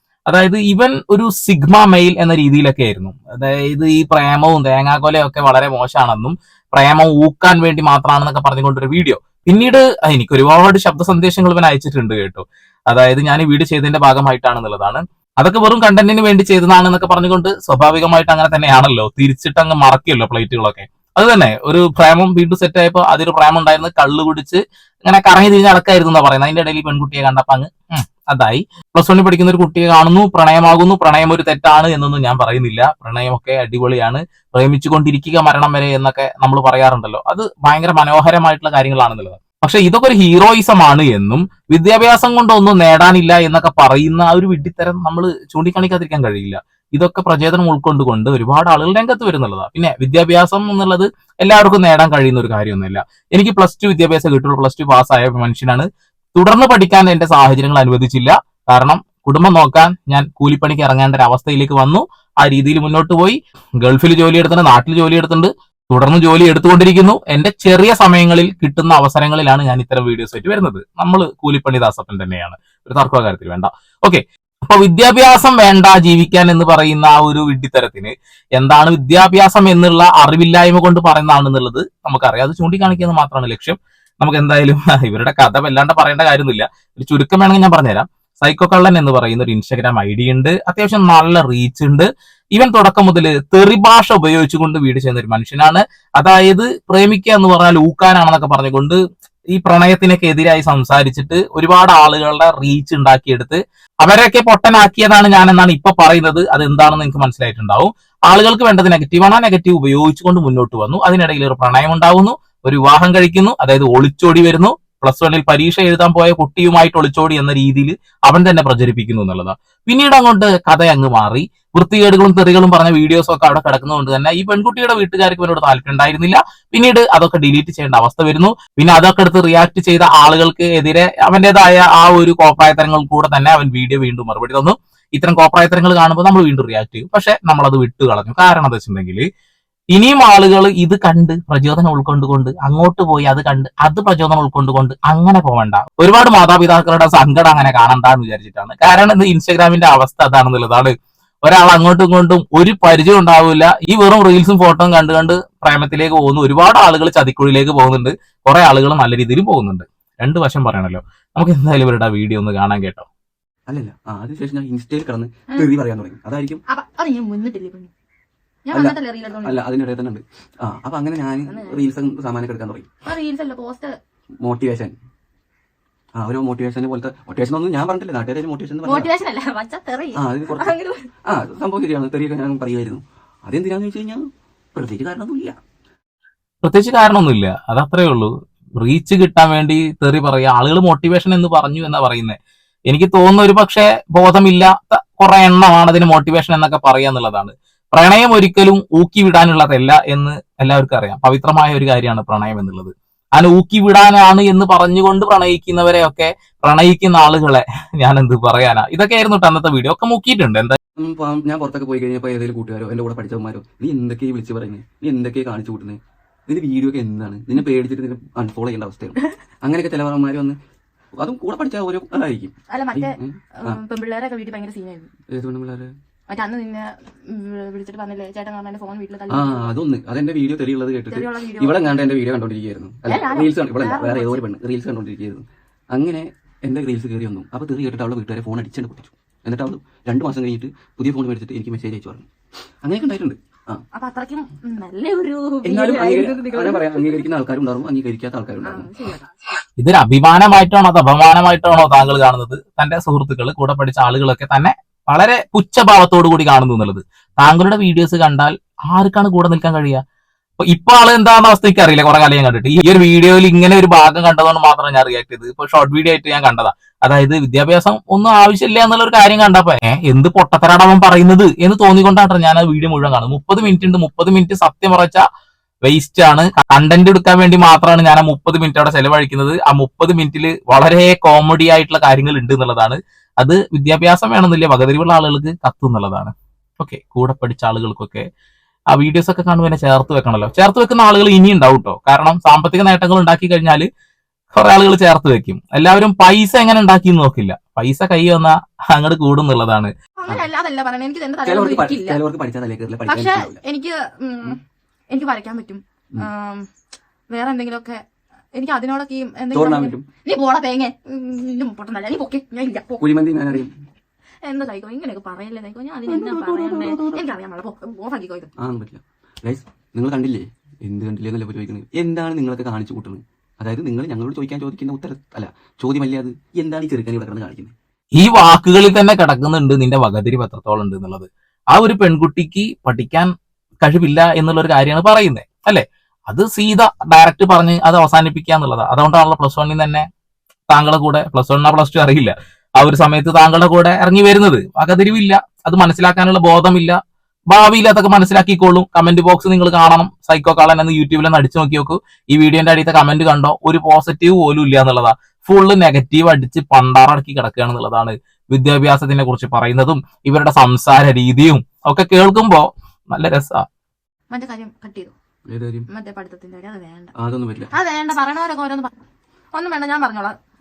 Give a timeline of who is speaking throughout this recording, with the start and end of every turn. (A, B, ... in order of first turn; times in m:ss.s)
0:00.3-1:39.0 A
1:39.5-2:19.2 A
2:19.9-2:43.0 A
2:43.7-2:46.6 B
2:46.7-2:47.9 C
2:48.6-2:49.6 C
2:48.7-2:52.9 B
2:51.5-2:51.8 C
2:53.0-2:53.9 C
2:54.4-2:54.9 B
2:56.2-2:59.1 B
2:58.8-3:01.1 C
3:00.1-3:00.7 B
3:01.2-3:05.6 B
3:06.6-3:12.4 A
3:12.9-3:30.8 A
3:31.0-3:40.6 B
3:41.2-3:43.8 B
3:42.7-3:45.1 C
3:45.3-3:45.9 B
3:46.3-3:49.8 C
3:49.3-4:02.3 B
3:51.1-3:52.0 C
3:53.1-3:54.4 C
4:02.8-4:03.8 B
4:03.9-4:07.3 C
4:05.6-4:08.9 B
4:08.6-4:09.6 C
4:09.8-4:20.0 A
4:20.6-4:35.2 A
4:35.8-4:48.2 A
4:48.9-4:53.8 A
4:54.5-4:59.9 A
5:00.2-5:02.2 C
5:01.4-5:03.6 B
5:03.1-5:04.6 C
5:05.1-5:06.7 C
5:07.3-5:08.0 C
5:08.5-5:13.6 C
5:09.5-5:10.0 B
5:13.0-5:13.7 B
5:14.4-5:18.5 C
5:16.1-5:17.2 B
5:18.6-5:27.7 B
5:28.2-5:33.3 A
5:33.8-5:40.0 A
5:40.7-5:47.0 A
5:47.5-6:03.6 A
6:04.3-6:05.1 C
6:05.5-6:05.9 B
6:05.9-6:07.1 C
6:07.2-6:07.7 B
6:07.7-6:08.9 C
6:09.5-6:10.4 C